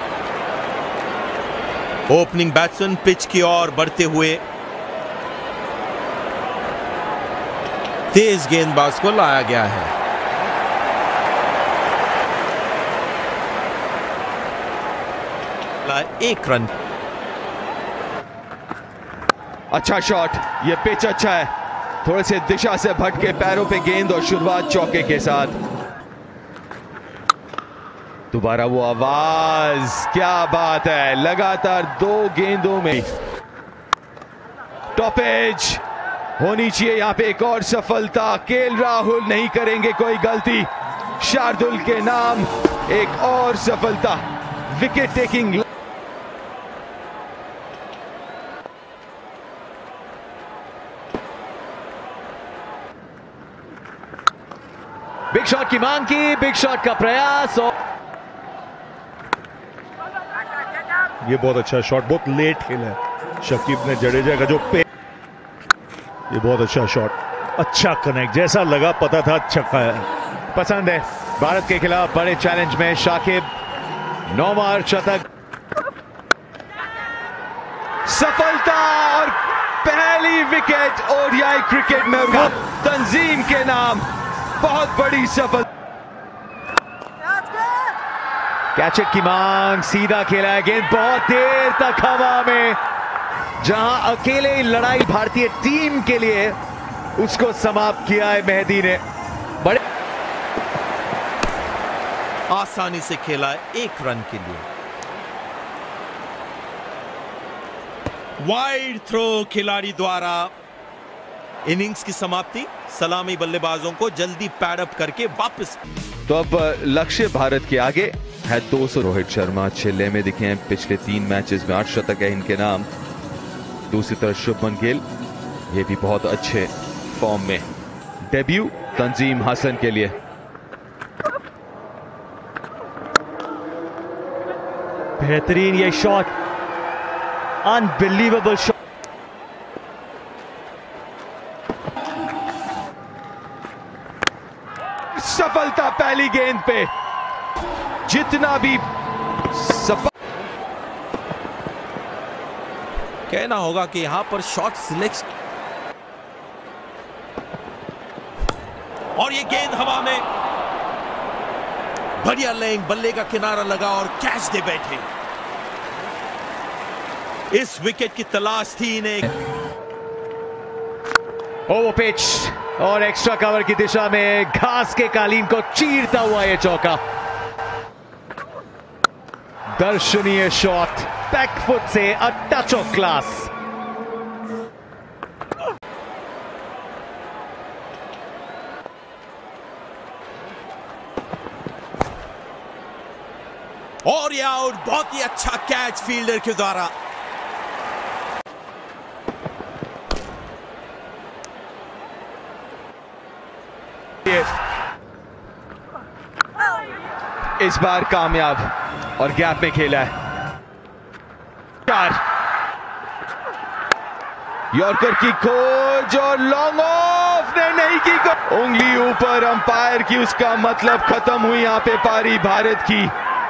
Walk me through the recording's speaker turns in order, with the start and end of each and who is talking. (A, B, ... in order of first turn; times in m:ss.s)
0:02.1-0:04.4 A
0:08.1-0:09.9 A
0:15.8-0:16.8 A
0:19.7-0:21.5 B
0:22.0-0:25.6 B
0:28.3-0:33.1 B
0:35.0-0:35.8 B
0:36.4-0:45.6 B
0:55.3-0:57.7 C
1:01.2-1:04.8 D
1:06.3-1:10.1 D
1:10.5-1:13.5 C
1:14.3-1:15.2 C
1:18.1-1:24.1 B
1:24.6-1:25.7 B
1:28.8-1:32.8 C
1:33.6-1:36.6 C
1:37.2-1:39.0 C
1:42.5-1:44.7 A
1:48.4-1:50.5 A
1:51.6-1:55.8 A
1:56.3-2:02.9 B
2:03.9-2:05.0 B
2:05.7-2:07.7 B
2:08.3-2:10.2 B
2:15.2-2:16.3 C
2:17.6-2:18.7 C
2:25.1-2:26.9 B
2:28.1-2:28.8 B
2:29.5-2:30.1 B
2:33.3-2:35.3 A
2:39.2-2:40.2 A
2:42.2-2:45.1 A
2:47.5-2:49.3 A
2:51.7-2:57.0 C
2:59.8-3:03.5 C
3:14.0-3:16.9 A
3:27.6-3:30.1 B
3:31.9-3:32.2 B
3:34.7-3:43.1 B